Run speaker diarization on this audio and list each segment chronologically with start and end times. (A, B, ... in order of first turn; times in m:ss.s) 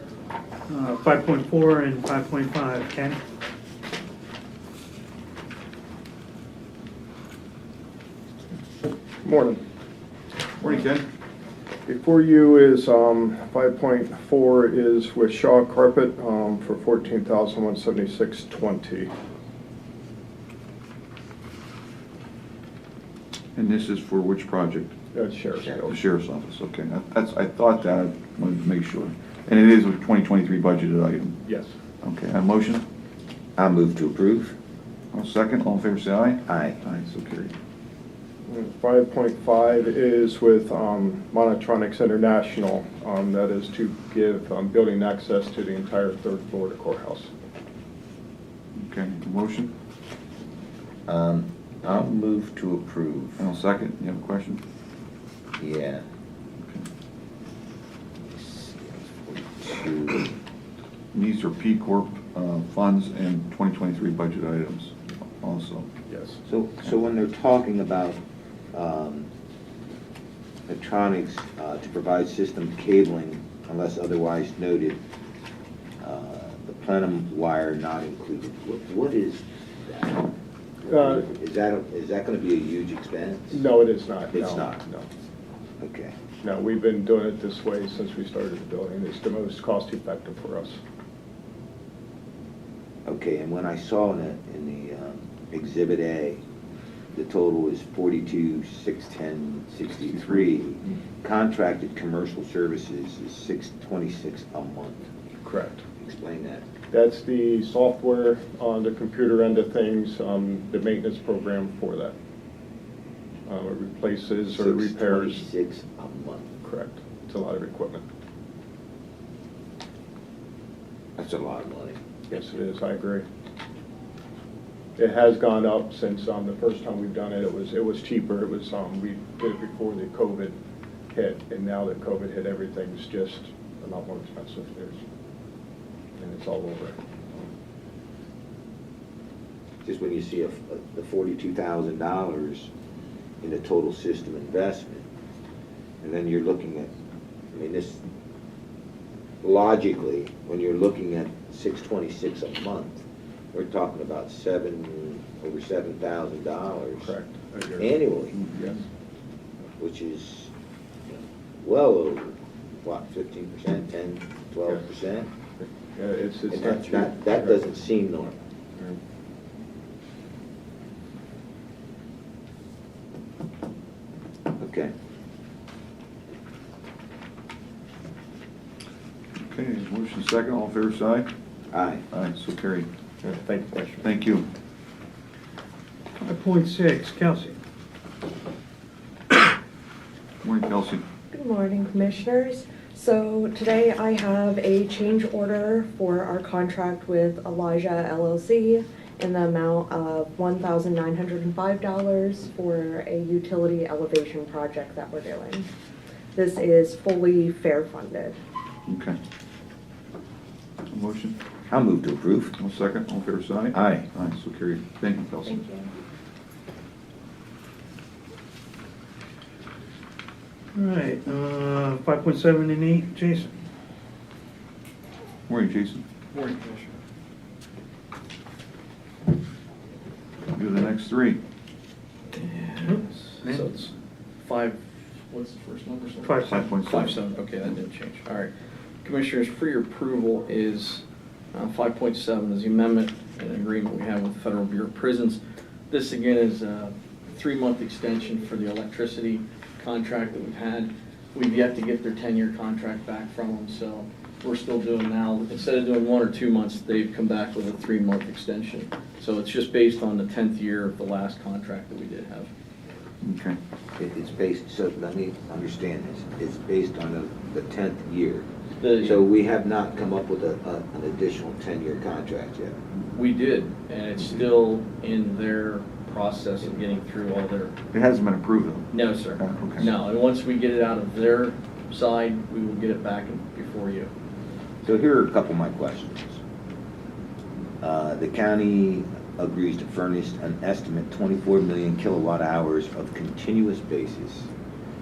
0:00.7-0:03.2 A
0:09.2-0:09.6 B
0:10.6-0:11.0 C
0:11.8-0:19.1 B
0:23.6-0:25.0 C
0:25.1-0:26.0 B
0:25.8-0:31.4 C
0:31.4-0:31.7 B
0:32.0-0:32.8 C
0:33.6-0:34.6 D
0:35.1-0:37.5 C
0:36.5-0:36.8 D
0:38.5-0:47.3 B
0:48.8-0:49.7 C
0:51.1-0:53.4 D
0:53.4-0:54.6 C
0:55.6-0:56.0 D
0:58.3-1:00.3 D
1:01.1-1:05.9 C
1:06.1-1:06.4 B
1:06.4-1:08.2 D
1:08.7-1:09.3 D
1:10.7-1:15.0 D
1:16.0-1:20.3 D
1:20.8-1:23.6 D
1:20.9-1:21.3 B
1:23.5-1:25.1 B
1:24.3-1:24.8 D
1:25.8-1:26.2 D
1:26.4-1:30.8 B
1:33.0-1:36.4 D
1:37.1-1:45.1 D
1:45.4-1:45.8 B
1:46.0-1:46.7 D
1:46.9-1:52.1 B
1:53.4-1:55.4 B
1:54.5-1:56.5 D
1:56.6-1:58.0 B
2:01.2-2:02.0 D
2:02.3-2:03.2 B
2:05.0-2:10.6 B
2:11.1-2:15.0 B
2:16.2-2:17.5 B
2:19.8-2:22.7 D
2:23.4-2:25.1 D
2:26.0-2:26.9 D
2:27.5-2:28.0 D
2:29.4-2:37.1 D
2:37.0-2:38.8 B
2:37.8-2:38.4 D
2:39.8-2:40.5 D
2:41.1-2:45.3 D
2:45.6-2:47.6 B
2:46.5-2:48.4 D
2:54.6-2:54.9 D
2:59.4-3:01.3 C
3:01.7-3:02.0 D
3:02.1-3:02.9 C
3:03.2-3:04.1 B
3:04.0-3:04.5 C
3:06.2-3:07.6 A
3:10.4-3:11.0 C
3:11.3-3:25.7 E
3:26.4-3:28.4 E
3:28.9-3:29.2 C
3:30.9-3:31.4 C
3:31.7-3:32.5 D
3:32.6-3:35.6 C
3:33.7-3:34.1 D
3:35.5-3:35.9 E
3:40.8-3:43.5 A
3:45.5-3:46.0 C
3:46.3-3:47.0 F
3:50.5-3:51.4 C
3:52.3-3:58.5 F
3:52.9-3:53.7 A
3:56.2-3:56.7 A
3:56.5-3:57.2 C
3:59.0-4:22.5 F
4:23.2-4:23.6 C
4:24.0-4:28.5 D
4:28.8-4:29.2 F
4:29.0-4:32.8 D
4:33.1-4:37.8 F
4:37.9-4:39.9 C
4:38.9-4:44.1 F
4:44.8-4:46.4 D
4:47.8-4:54.5 D